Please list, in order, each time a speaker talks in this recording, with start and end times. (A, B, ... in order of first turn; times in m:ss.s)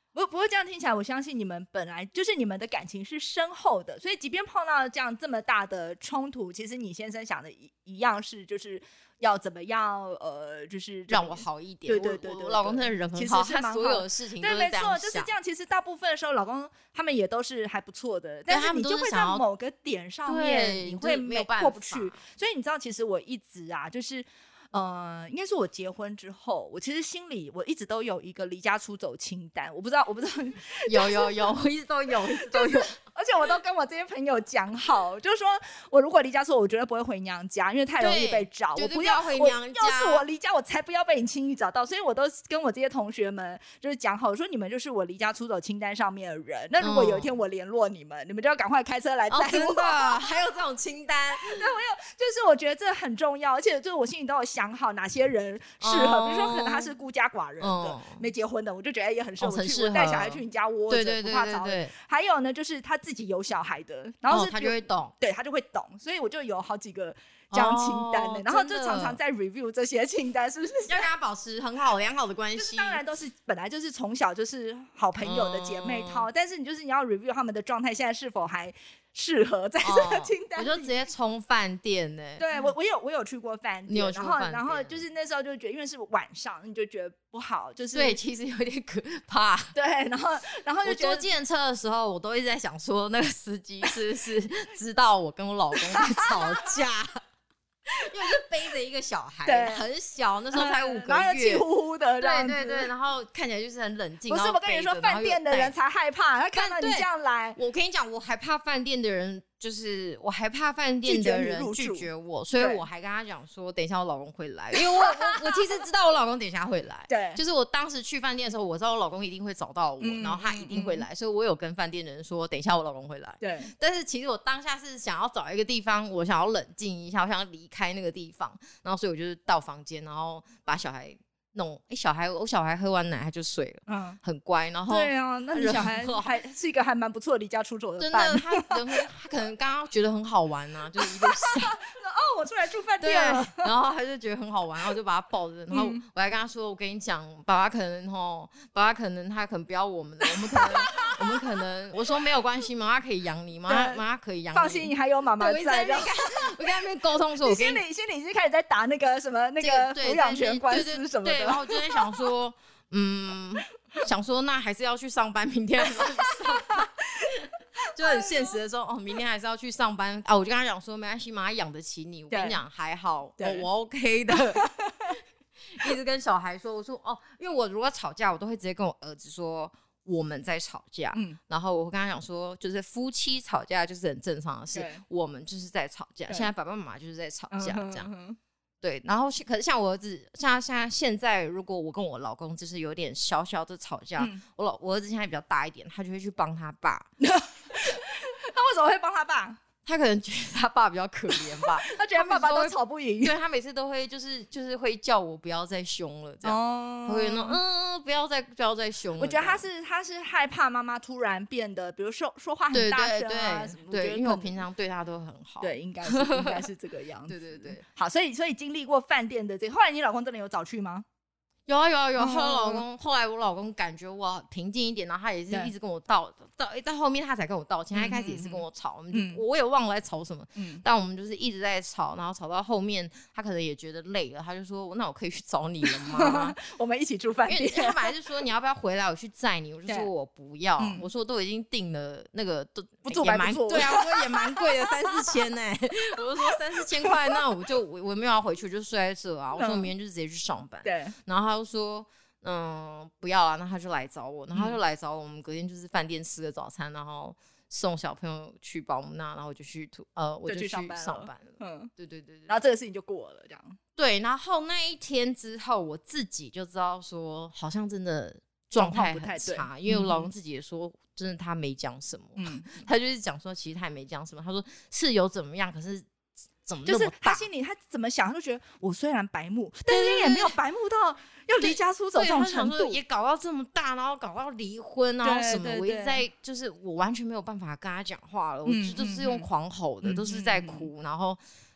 0:00.1-0:31.6 A
0:11.1-0:15.4 B
0:18.5-0:19.4 B
0:20.2-0:22.3 B
0:30.8-0:33.0 B
0:32.3-0:50.4 A
0:38.0-0:40.3 B
0:46.8-0:47.3 B
0:49.3-0:51.7 B
0:51.3-1:11.1 A
0:55.8-0:57.0 B
0:57.6-0:58.2 B
0:59.4-1:02.0 B
1:04.3-1:05.1 B
1:07.5-1:09.2 B
1:10.9-1:13.1 B
1:12.5-1:21.0 A
1:15.1-1:16.3 B
1:19.8-1:22.7 B
1:22.4-1:28.2 A
1:23.8-1:25.0 B
1:27.9-1:29.8 B
1:29.7-1:31.3 A
1:30.8-1:37.2 B
1:35.7-1:36.7 A
1:37.9-1:45.8 B
1:39.4-1:39.9 A
1:40.5-1:42.9 A
1:44.2-1:47.6 A
1:46.5-2:16.4 B
1:51.0-1:52.8 A
1:54.7-1:55.7 A
1:57.1-1:57.4 A
2:00.0-2:01.1 A
2:03.4-2:03.7 A
2:13.9-2:14.2 A
2:14.9-2:19.0 A
2:18.0-2:21.8 B
2:21.0-2:23.7 A
2:23.0-2:37.8 B
2:25.7-2:26.0 A
2:30.2-2:31.4 A
2:33.7-2:36.5 A
2:37.4-2:42.3 A
2:39.6-3:08.1 B
2:46.2-2:46.9 A
2:48.0-2:48.6 A
2:52.3-2:52.6 A
2:53.4-2:53.7 A
2:54.3-2:54.8 A
3:01.1-3:01.4 A
3:04.7-3:05.0 A
3:07.5-3:08.4 A
3:08.8-3:17.1 B
3:17.2-3:19.6 A
3:19.8-3:29.7 B
3:21.4-3:23.4 A
3:26.4-3:27.6 A
3:29.1-3:34.7 A
3:32.7-3:36.7 B
3:35.6-3:41.0 A
3:37.2-3:37.8 B
3:41.6-3:56.6 B
3:42.2-3:42.8 A
3:45.5-3:45.7 A
3:47.9-3:49.4 A
3:50.6-3:50.8 A
3:55.8-3:58.3 A
3:57.4-4:22.6 B
3:59.9-4:00.1 A
4:00.8-4:01.1 A
4:03.0-4:05.4 A
4:07.0-4:07.4 A
4:09.5-4:09.9 A
4:10.8-4:11.1 A
4:14.5-4:14.8 A
4:20.4-4:21.9 A
4:22.5-4:23.8 A
4:24.0-4:36.1 B
4:28.8-4:30.3 A
4:32.4-4:32.8 A
4:36.6-4:37.4 B
4:36.8-4:43.0 A
4:39.8-4:40.6 B
4:41.5-4:51.4 B
4:45.2-4:46.2 A
4:48.6-4:49.5 A
4:50.0-4:50.9 A